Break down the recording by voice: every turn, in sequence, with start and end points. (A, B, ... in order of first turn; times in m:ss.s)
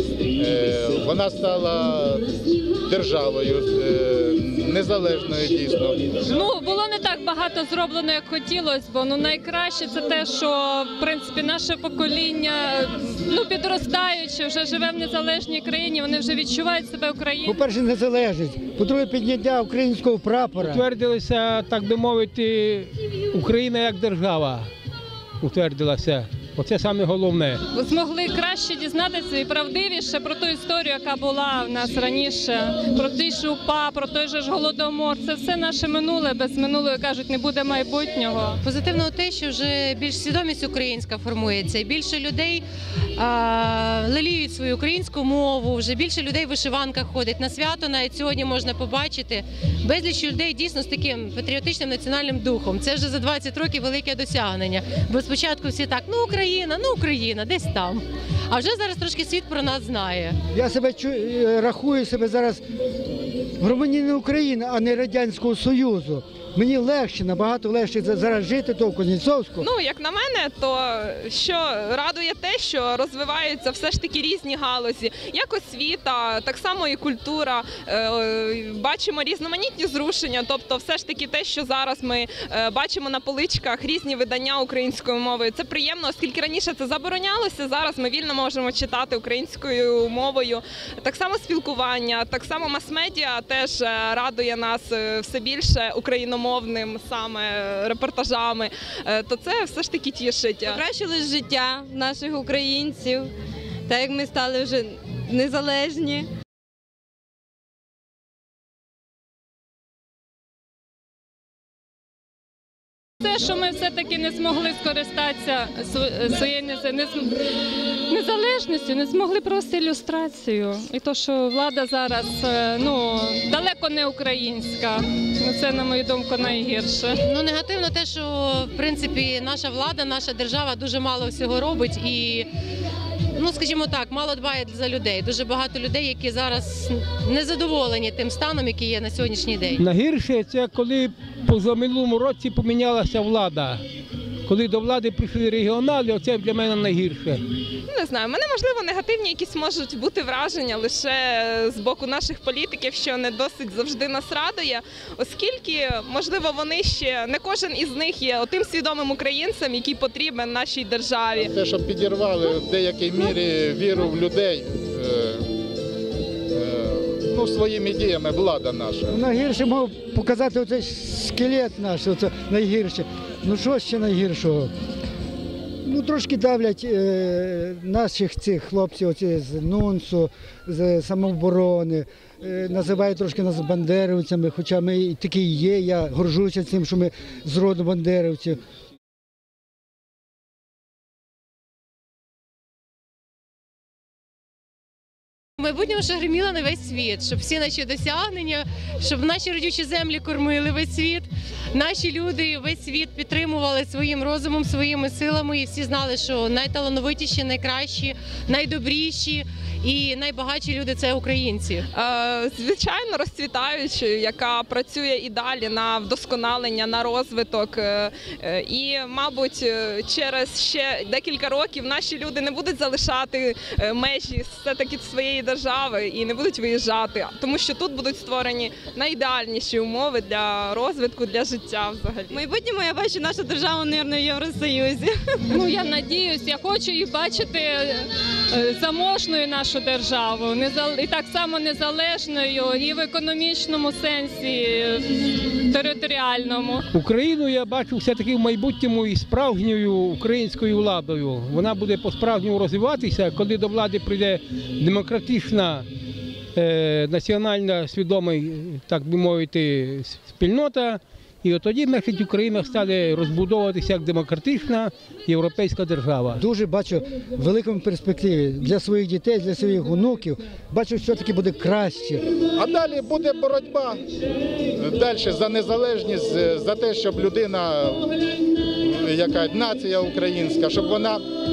0:00.3-0:02.3 A
0:02.8-0:06.1 A
0:06.2-0:17.6 B
0:17.4-0:20.8 C
0:20.6-0:24.7 D
0:25.4-0:27.6 D
0:27.7-0:38.6 B
0:38.6-0:42.6 E
0:43.2-1:00.4 E
1:00.5-1:02.6 C
1:03.6-1:09.6 C
1:09.6-1:40.8 F
1:40.6-1:43.3 G
1:43.9-1:46.3 G
1:53.2-1:57.4 B
1:58.1-2:07.2 B
2:07.2-2:12.5 E
2:13.4-2:19.8 E
2:19.8-2:23.8 D
2:24.4-2:27.4 D
2:27.9-2:41.5 F
2:41.4-2:45.5 A
2:46.5-2:49.1 A
2:49.1-2:54.7 C
2:55.8-3:08.6 C
3:15.6-3:31.8 E
3:31.9-3:52.4 F
3:52.3-3:55.2 G
3:55.5-4:06.8 B
4:06.9-4:15.8 D
4:16.6-4:26.4 D
4:26.4-4:32.2 C
4:32.6-4:34.0 A
4:34.8-4:38.1 A
4:38.8-4:41.2 A